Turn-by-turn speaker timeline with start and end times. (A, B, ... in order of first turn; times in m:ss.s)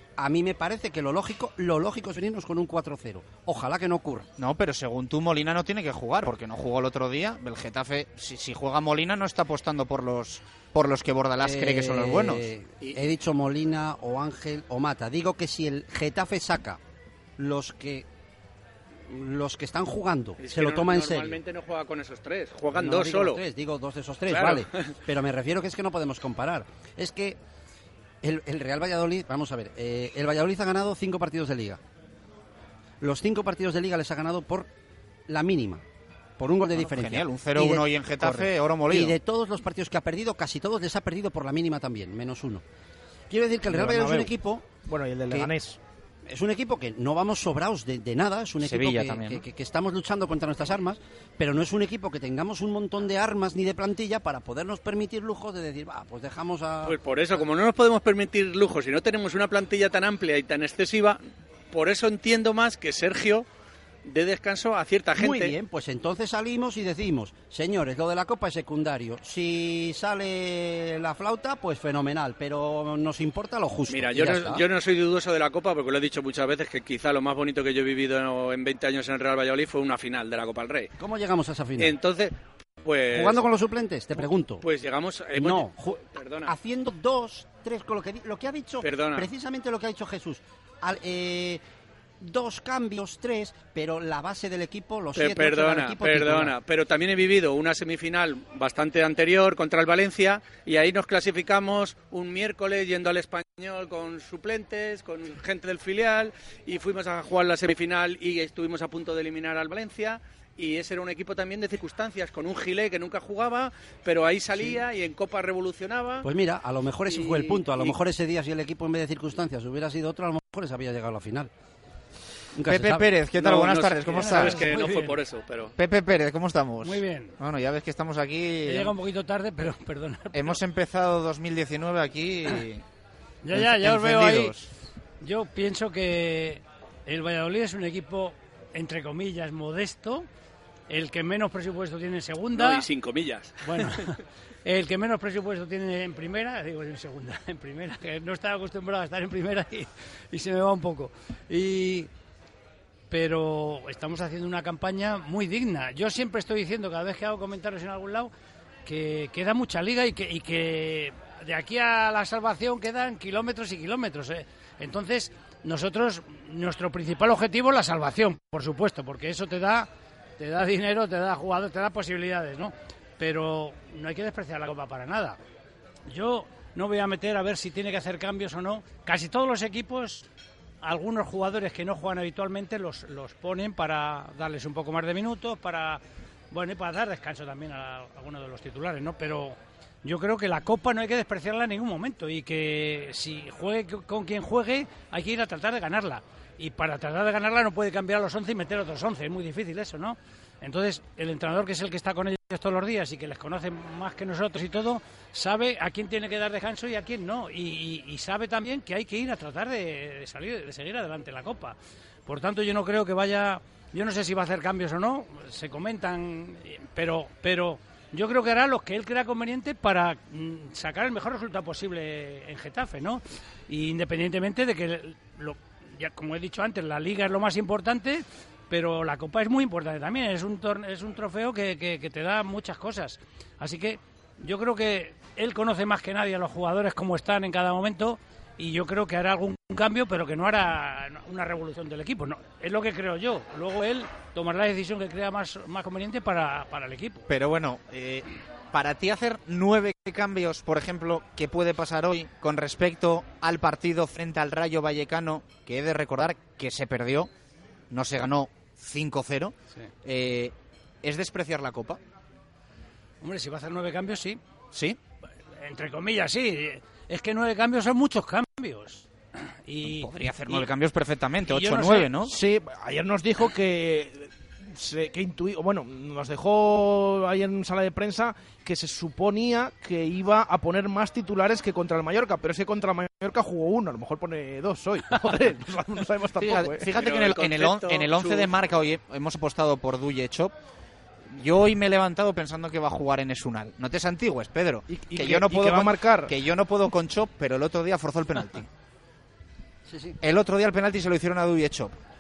0:00.2-0:04.3 A
0:04.4-0:12.5 B
0:11.4-0:16.8 A
0:17.4-0:18.0 A
0:19.1-0:21.4 A
0:20.4-0:23.4 C
0:22.7-0:27.4 A
0:24.3-0:24.9 C
0:28.2-0:31.8 A
0:33.0-0:34.7 A
0:35.3-0:35.8 A
0:36.4-0:42.6 A
0:36.8-0:39.2 B
0:43.3-0:44.6 A
0:43.7-0:44.3 D
0:44.9-0:45.8 D
0:46.3-0:57.4 A
0:48.6-0:49.4 B
0:56.8-1:03.5 C
1:04.1-1:05.5 C
1:05.2-1:14.6 A
1:13.9-1:20.9 C
1:21.0-1:22.0 A
1:21.8-1:23.4 C
1:23.1-1:24.6 A
1:24.6-1:26.5 C
1:25.3-1:31.6 A
1:28.8-1:29.3 C
1:32.2-1:36.6 A
1:35.2-1:56.3 C
1:54.5-1:54.8 A
1:56.2-2:01.5 A
1:57.1-1:58.0 C
2:02.6-2:03.1 A
2:02.7-2:04.6 B
2:03.4-2:05.7 C
2:04.1-2:05.2 E
2:05.8-2:08.9 B
2:06.8-2:07.3 E
2:08.7-2:10.6 E
2:10.3-2:12.8 B
2:13.4-2:14.6 E
2:13.5-2:14.7 B
2:15.2-2:20.3 E
2:20.9-2:22.9 E
2:22.6-2:23.9 C
2:23.6-2:32.1 E
2:33.1-2:38.3 E
2:38.9-2:55.4 E
2:56.1-3:00.3 E
3:00.8-4:07.2 E
4:07.3-4:17.3 B
4:17.9-4:22.0 B
4:23.2-4:24.4 E
4:24.7-4:25.0 B
4:25.6-4:29.1 E
4:29.7-4:30.7 E
4:29.8-4:32.3 B
4:31.5-4:32.1 E
4:32.3-4:46.9 D
4:46.4-4:50.5 B
4:46.9-4:48.5 C
4:51.4-4:58.7 B
4:54.9-4:56.3 D
4:59.9-5:00.2 A
5:00.2-5:01.9 B